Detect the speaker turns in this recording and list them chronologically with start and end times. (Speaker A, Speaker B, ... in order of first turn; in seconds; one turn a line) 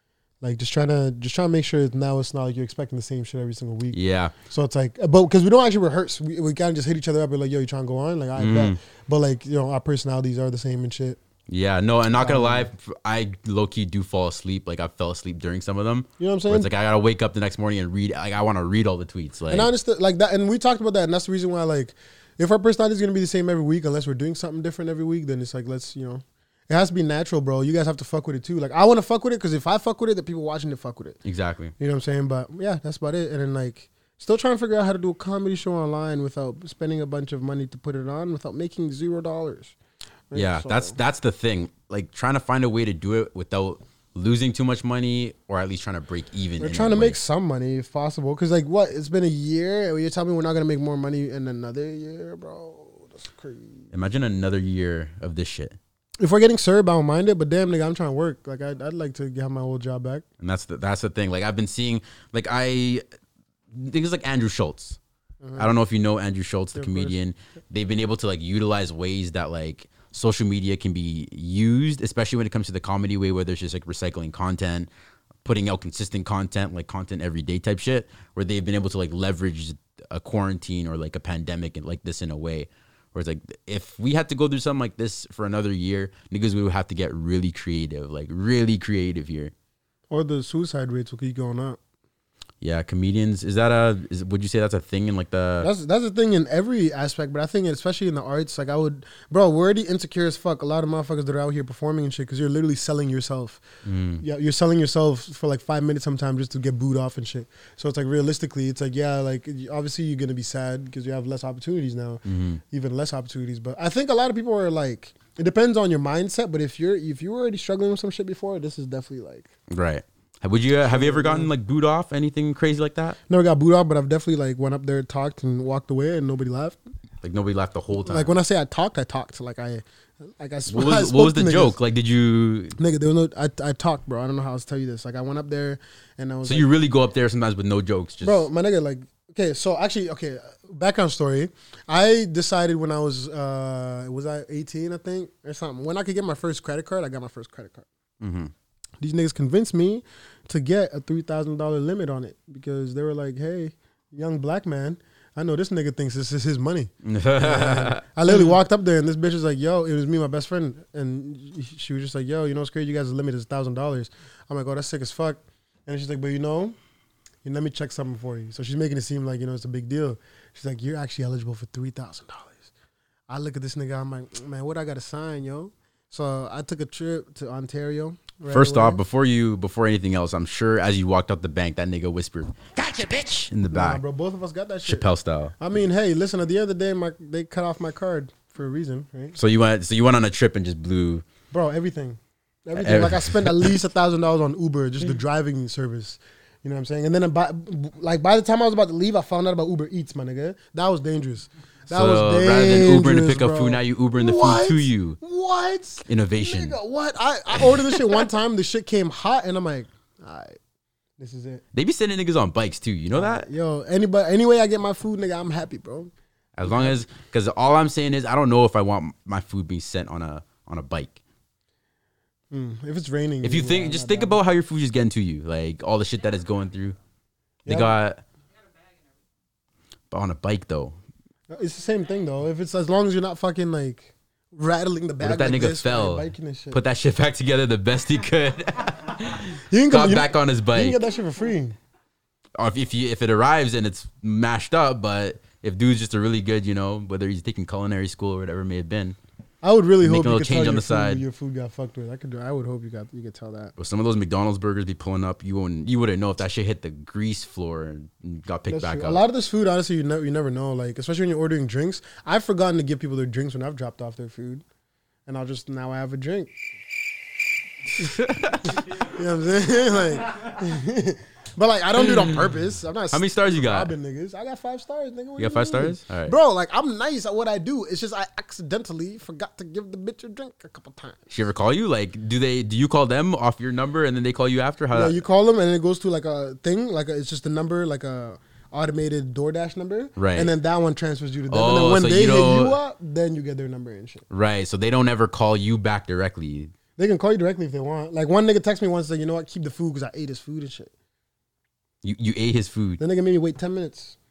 Speaker A: 0.4-11.2
Speaker B: 3.9-4.3
Speaker B: 8.4-8.8
Speaker B: 11.5-19.7
Speaker A: 12.2-12.7
Speaker A: 16.2-16.7
Speaker A: 19.5-31.2
Speaker B: 31.2-31.7
Speaker A: 31.8-39.8
Speaker A: 40.3-41.0
Speaker B: 40.3-47.2
Speaker A: 46.6-53.9
Speaker B: 53.9-55.8
Speaker A: 56.2-60.2
Speaker B: 60.4-63.0
Speaker B: 63.7-65.0
Speaker A: 65.4-65.7
Speaker B: 65.6-74.9
Speaker A: 66.8-67.2
Speaker B: 75.4-89.5
Speaker A: 90.1-91.8
Speaker B: 92.6-95.7
Speaker A: 95.6-103.6
Speaker B: 103.8-104.2
Speaker A: 104.2-119.5
Speaker B: 112.2-112.6
Speaker B: 119.7-123.2
Speaker A: 120.8-121.5
Speaker A: 123.3-126.8
Speaker B: 127.2-128.3
Speaker A: 128.1-129.8
Speaker A: 130.4-131.8
Speaker B: 130.7-132.8
Speaker A: 132.8-136.7
Speaker B: 136.4-138.5
Speaker A: 138.2-147.9
Speaker B: 148.2-148.5
Speaker A: 149.0-166.8
Speaker B: 157.0-158.5
Speaker A: 167.4-172.7
Speaker A: 173.3-179.0
Speaker B: 178.5-184.0
Speaker A: 183.7-185.1
Speaker B: 184.8-185.5
Speaker A: 185.6-189.4
Speaker B: 189.4-191.2
Speaker A: 191.5-210.6
Speaker B: 192.8-193.8
Speaker B: 201.9-205.2
Speaker B: 206.1-206.8
Speaker B: 207.6-208.2
Speaker A: 211.2-211.6
Speaker B: 211.7-213.5
Speaker A: 213.1-216.1
Speaker B: 216.6-221.2
Speaker A: 216.7-217.0
Speaker A: 222.5-224.4
Speaker B: 223.4-227.0
Speaker A: 227.7-228.0
Speaker B: 227.7-228.2
Speaker B: 230.1-230.9
Speaker A: 231.5-236.8
Speaker B: 235.2-241.0
Speaker A: 239.7-241.8
Speaker B: 242.6-249.2
Speaker A: 249.6-253.7
Speaker B: 250.0-251.2
Speaker B: 253.8-259.2
Speaker A: 258.7-264.6
Speaker A: 265.3-266.6
Speaker B: 268.0-268.8
Speaker A: 268.7-281.2
Speaker B: 272.0-272.3
Speaker B: 273.1-273.9
Speaker B: 275.4-276.4
Speaker B: 281.3-285.2
Speaker A: 284.9-294.2
Speaker B: 290.2-290.5
Speaker B: 291.5-292.8
Speaker B: 294.3-296.7
Speaker A: 297.0-300.9
Speaker B: 302.0-303.0
Speaker A: 303.0-304.2